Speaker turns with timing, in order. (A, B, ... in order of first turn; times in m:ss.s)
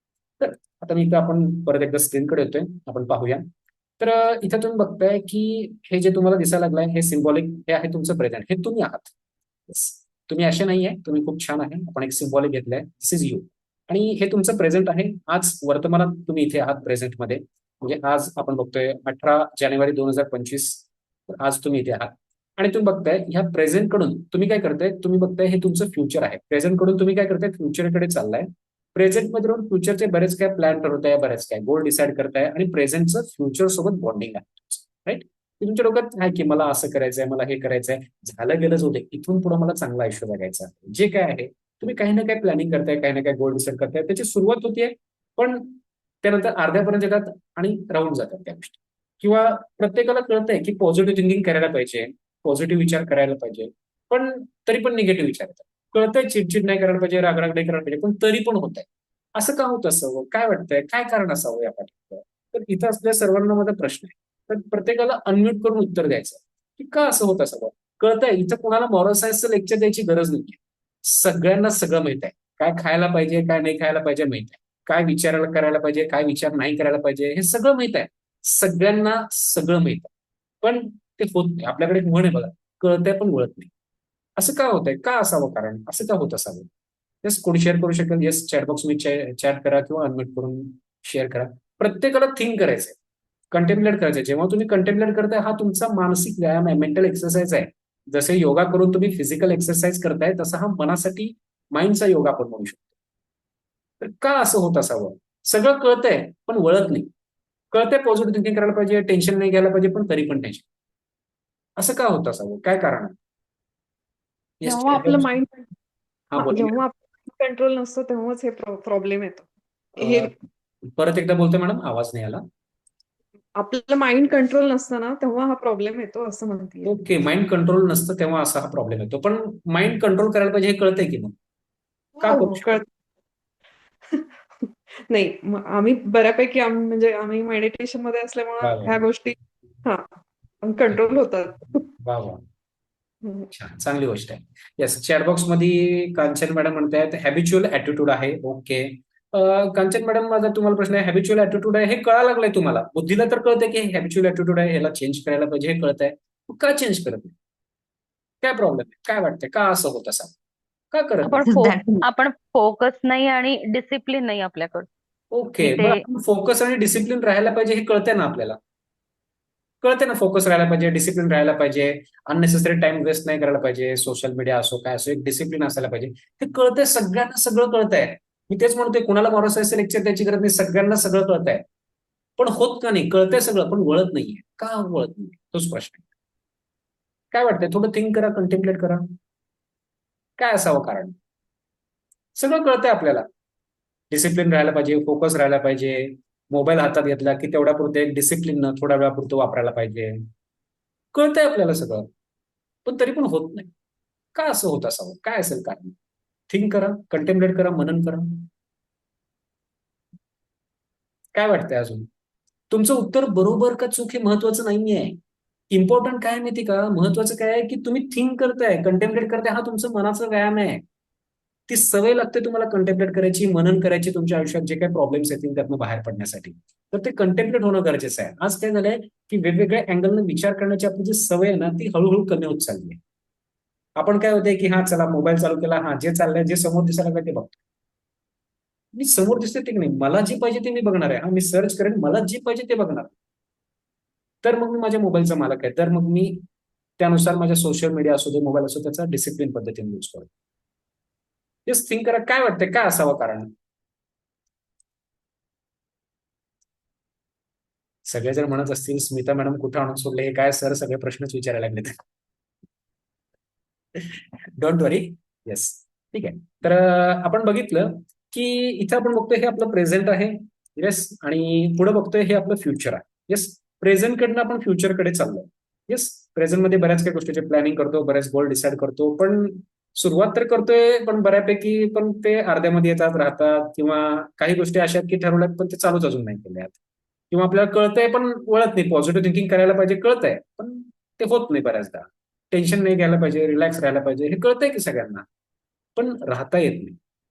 0:00.4-0:03.4 A
0:04.0-0:09.1 A
0:09.7-1:20.1 A
1:20.6-1:23.7 A
1:24.4-1:26.7 A
1:27.2-1:33.0 A
1:33.5-1:42.9 A
1:44.0-1:47.1 A
1:47.7-1:50.6 A
1:51.8-1:53.2 A
1:54.6-1:55.3 A
1:54.6-1:55.7 B
1:56.3-1:56.8 A
1:56.3-2:00.3 B
2:00.0-2:00.3 A
2:00.9-2:02.4 A
2:03.6-2:06.9 B
2:06.8-2:11.3 A
2:12.2-2:12.9 B
2:12.2-2:12.8 A
2:14.1-2:21.8 B
2:18.6-2:19.0 A
2:22.0-2:22.4 A
2:23.5-2:37.3 A
2:38.4-2:40.3 A
2:40.9-2:41.4 A
2:41.2-2:44.9 C
2:45.3-2:48.6 A
2:45.6-2:46.0 C
2:49.8-3:01.6 A
3:02.4-3:06.0 A
3:07.3-3:09.2 A
3:10.4-3:11.1 A
3:12.4-3:13.3 A
3:14.1-3:20.2 A
3:21.1-3:22.1 A
3:22.8-3:23.7 A
3:24.3-3:26.0 A
3:26.5-3:28.5 A
3:31.3-3:32.1 A
3:32.7-3:35.2 A
3:35.7-3:40.8 A
3:41.7-3:53.0 A
3:54.0-3:57.6 A
3:58.9-4:03.1 A
4:04.4-4:06.4 A
4:07.0-4:10.3 A
4:11.6-4:13.5 A
4:18.0-4:22.0 A
4:23.9-4:46.7 A
4:47.3-4:55.2 A
4:56.0-4:57.0 A